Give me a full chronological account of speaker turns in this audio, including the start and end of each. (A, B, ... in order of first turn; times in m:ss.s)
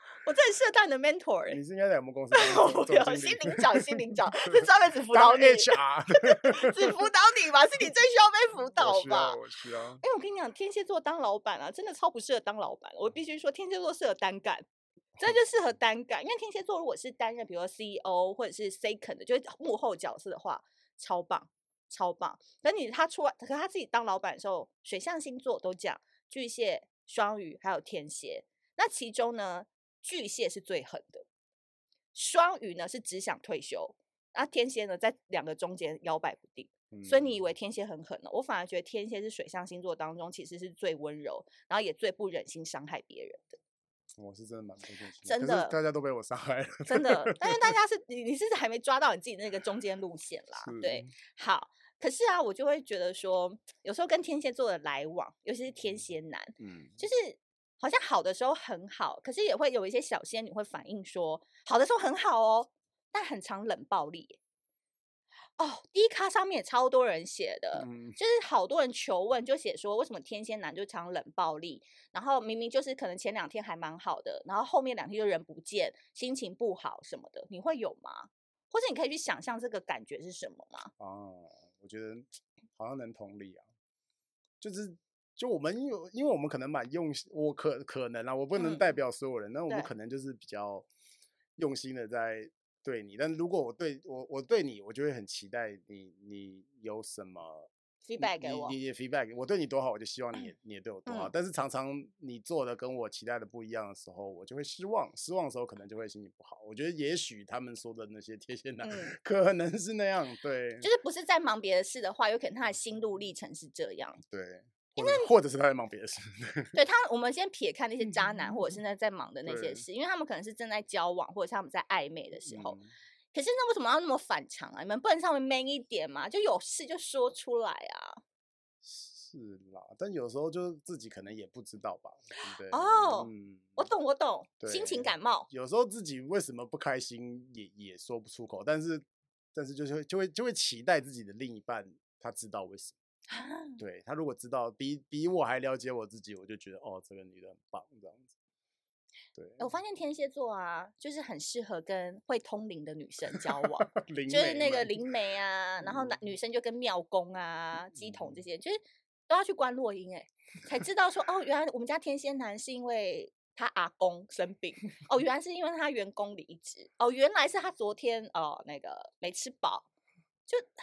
0:00.2-0:01.6 A
0:01.5-0:04.5 B
0:02.3-0:09.4 A
0:05.1-0:07.1 B
0:08.8-0:10.0 B
0:10.0-0:14.6 A
0:15.2-0:31.2 A
0:32.1-0:43.6 A
0:36.9-0:37.4 B
0:44.2-0:47.8 B
0:45.2-0:45.8 A
0:46.8-1:04.4 A
0:50.6-0:51.1 B
0:56.6-0:57.0 B
1:05.6-1:20.9 A
1:07.8-1:08.2 B
1:21.0-1:23.6 B
1:24.6-1:30.9 B
1:28.6-1:28.8 A
1:31.6-1:50.9 B
1:38.0-1:38.8 A
1:41.0-1:41.3 A
1:48.8-1:49.1 A
1:50.8-1:54.2 A
1:54.2-1:56.7 B
1:55.0-1:55.3 A
1:56.7-2:02.8 A
1:59.4-1:59.8 B
2:02.4-2:02.9 B
2:03.3-2:08.2 A
2:08.8-2:13.9 B
2:12.7-2:15.5 A
2:14.6-2:23.0 B
2:23.3-2:23.8 A
2:23.8-2:28.3 B
2:29.3-2:29.7 B
2:29.6-2:49.9 A
2:33.3-2:35.1 B
2:35.8-2:36.2 B
2:37.9-2:38.4 B